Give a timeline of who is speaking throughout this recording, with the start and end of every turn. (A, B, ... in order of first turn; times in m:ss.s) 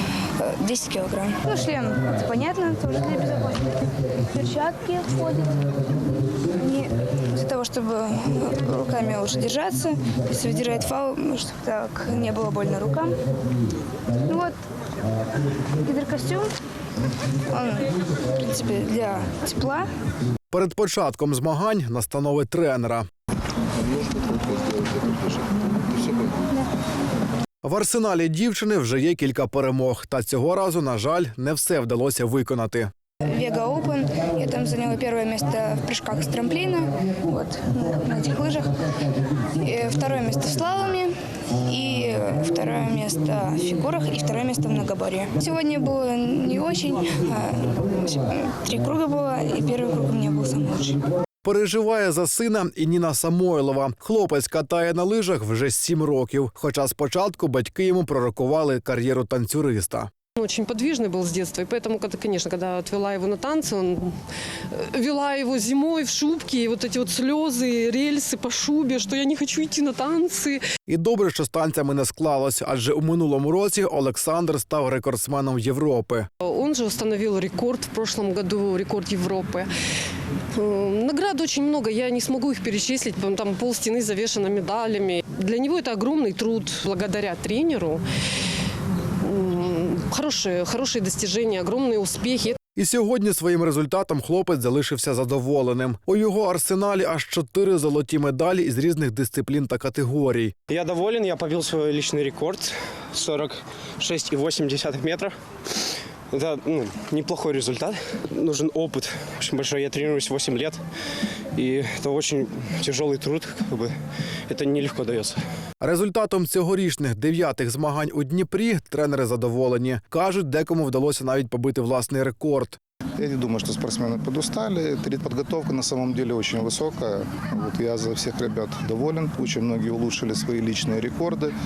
0:00.4-0:13.2 A
0:14.2-0:14.6 A
0:15.7-0:16.5 A
0:17.5-0:19.9 A
0:20.5-0:23.1 B
0:23.8-0:26.5 C
0:27.6-0:32.9 B
0:33.2-0:51.0 A
0:51.4-1:00.1 B
1:00.4-1:04.2 D
1:04.7-1:10.6 D
1:10.9-1:16.3 B
1:16.4-1:19.7 D
1:20.5-1:28.0 D
1:29.2-1:32.6 D
1:32.8-1:40.5 B
1:40.7-1:50.8 E
1:51.5-1:53.9 E
1:54.5-1:55.4 E
1:55.8-2:02.8 B
2:03.2-2:11.6 C